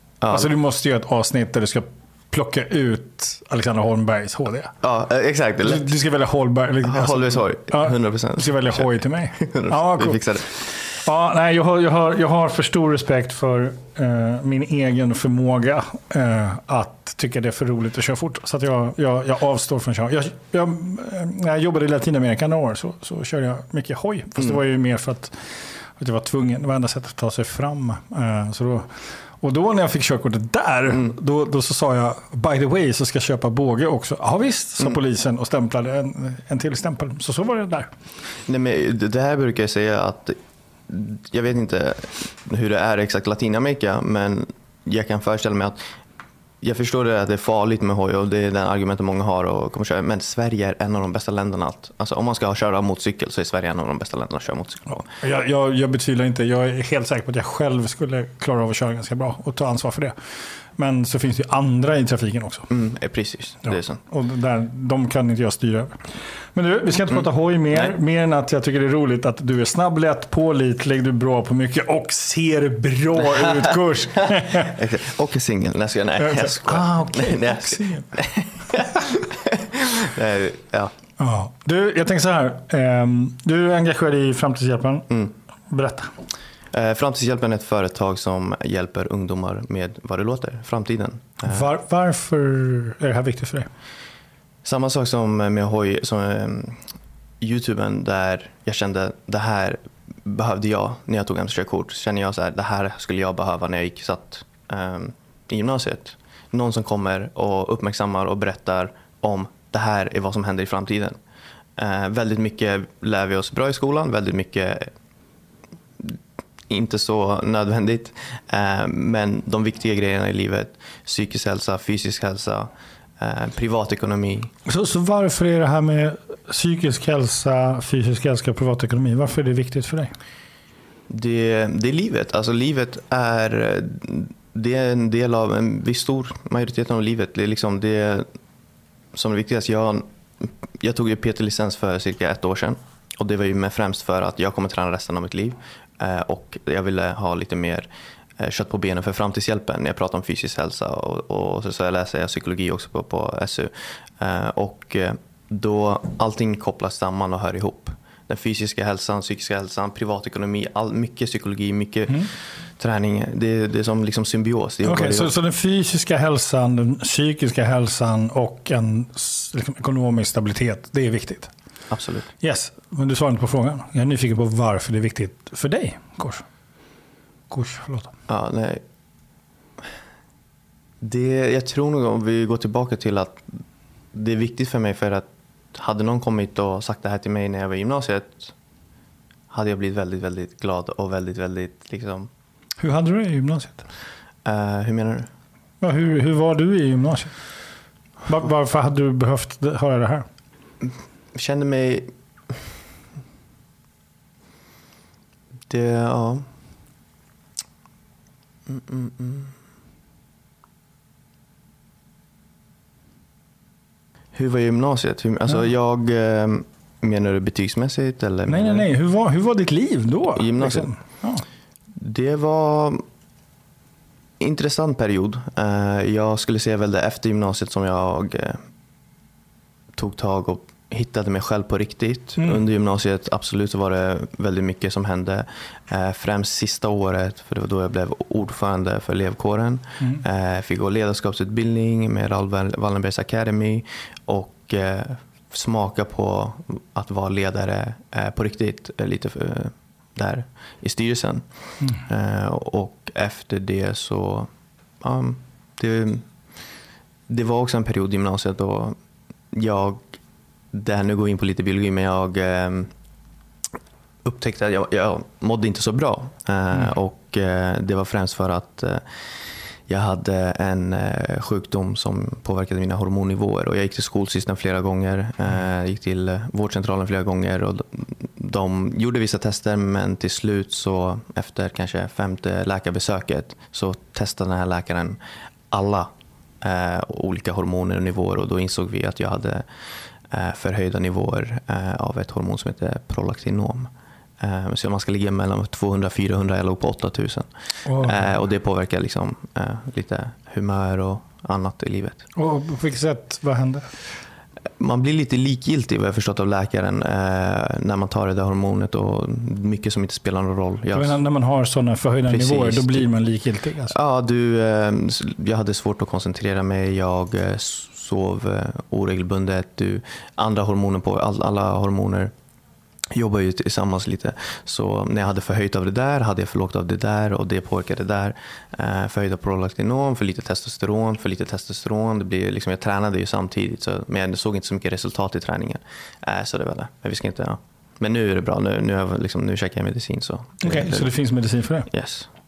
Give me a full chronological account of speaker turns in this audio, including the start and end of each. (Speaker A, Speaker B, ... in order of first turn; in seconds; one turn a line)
Speaker A: 0.2-0.5
Speaker B: 0.3-4.7
Speaker A: 4.8-5.9
Speaker B: 5.6-37.9
Speaker A: 6.8-10.5
Speaker A: 38.5-40.4
Speaker A: 40.9-45.9
Speaker A: 46.6-55.0
Speaker B: 54.9-62.7
Speaker A: 62.7-64.0
Speaker B: 63.6-74.8
Speaker A: 67.1-67.9
Speaker A: 74.2-80.9
Speaker B: 76.2-78.1
Speaker B: 81.2-85.1
Speaker B: 85.7-86.1
Speaker A: 86.7-91.7
Speaker B: 91.4-93.7
Speaker A: 94.6-96.9
Speaker A: 97.4-111.2
Speaker A: 111.8-114.9
Speaker A: 116.0-124.5
Speaker B: 124.7-130.1
Speaker A: 131.1-138.3
Speaker A: 139.1-147.9
Speaker A: 148.4-165.3
Speaker B: 164.8-171.5
Speaker A: 171.9-172.3
Speaker B: 172.4-176.5
Speaker B: 177.5-178.1
Speaker A: 178.3-178.8
Speaker A: 181.0-183.4
Speaker A: 184.1-188.5
Speaker A: 189.5-192.3
Speaker B: 192.8-193.8
Speaker A: 194.4-195.3
Speaker B: 195.8-197.4
Speaker B: 198.2-200.3
Speaker A: 200.8-202.5
Speaker A: 205.7-206.5
Speaker A: 208.7-209.6
Speaker A: 214.3-218.9
Speaker B: 218.5-221.4
Speaker A: 220.4-220.9
Speaker A: 222.0-223.0
Speaker A: 224.4-228.7
Speaker A: 230.0-254.5
Speaker B: 232.4-232.6
Speaker A: 255.0-256.3
Speaker A: 257.3-259.0
Speaker A: 259.5-260.2
Speaker A: 260.7-262.9
Speaker A: 264.2-285.2
Speaker A: 285.7-286.1
Speaker A: 286.6-289.7
Speaker A: 290.3-302.2
Speaker B: 297.9-298.4
Speaker B: 302.4-303.9
Speaker A: 304.8-311.2
Speaker B: 310.9-313.9
Speaker A: 312.3-313.1
Speaker A: 313.9-322.3
Speaker A: 323.1-341.1
Speaker B: 340.6-341.9
Speaker A: 341.9-342.3